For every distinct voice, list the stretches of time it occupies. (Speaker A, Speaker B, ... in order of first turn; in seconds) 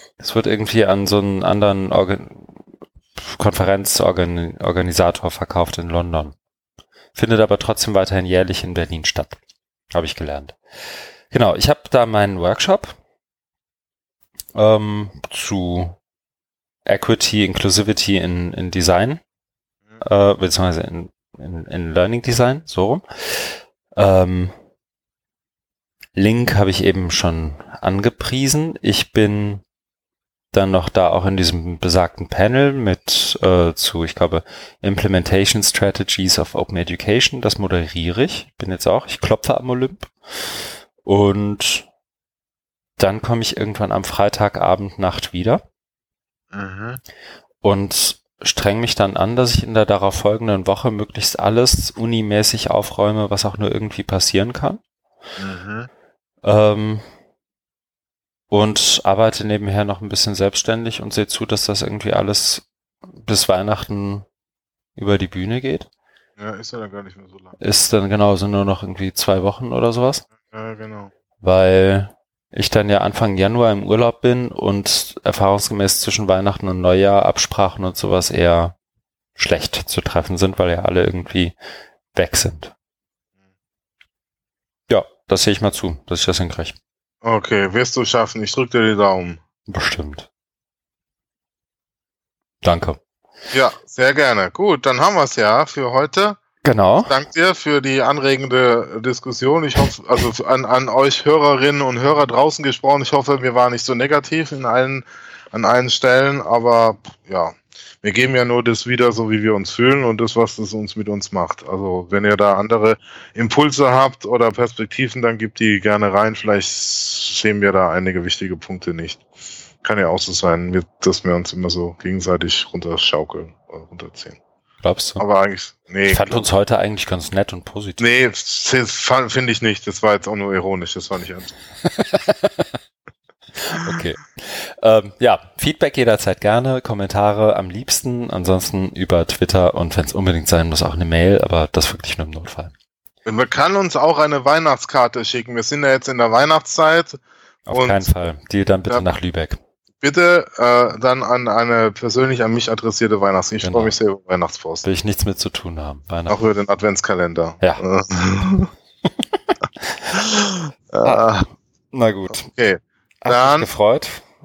Speaker A: 0.2-2.5, 3.2-6.4, 7.2-9.4, 9.9-10.6, 11.3-13.0, 14.5-16.0, 16.9-19.2, 20.0-24.5, 26.1-29.6, 30.5-40.1, 41.0-41.9, 43.0-45.6, 47.6-54.8, 56.4-57.0, 58.5-62.7, 63.2-64.3, 65.0-65.9, 67.6-70.3, 71.4-78.8, 79.4-81.5, 82.1-82.7, 84.9-86.8, 89.7-90.3, 92.6-93.0, 96.6-97.1, 124.8-125.2, 126.1-128.2, 131.9-132.7, 133.6-142.7, 147.7-149.6, 153.6-154.0, 154.8-156.4, 159.8-160.1, 161.0-161.3, 161.9-162.5, 163.2-164.2
Speaker B: 46.5-47.0, 55.4-55.9, 66.4-67.6, 70.4-71.1, 87.2-89.4, 93.5-96.4, 97.1-119.2, 119.8-124.4, 125.2-126.5, 128.0-131.5, 143.2-148.1, 150.0-154.8, 156.3-158.7, 160.1-161.5, 162.4-163.7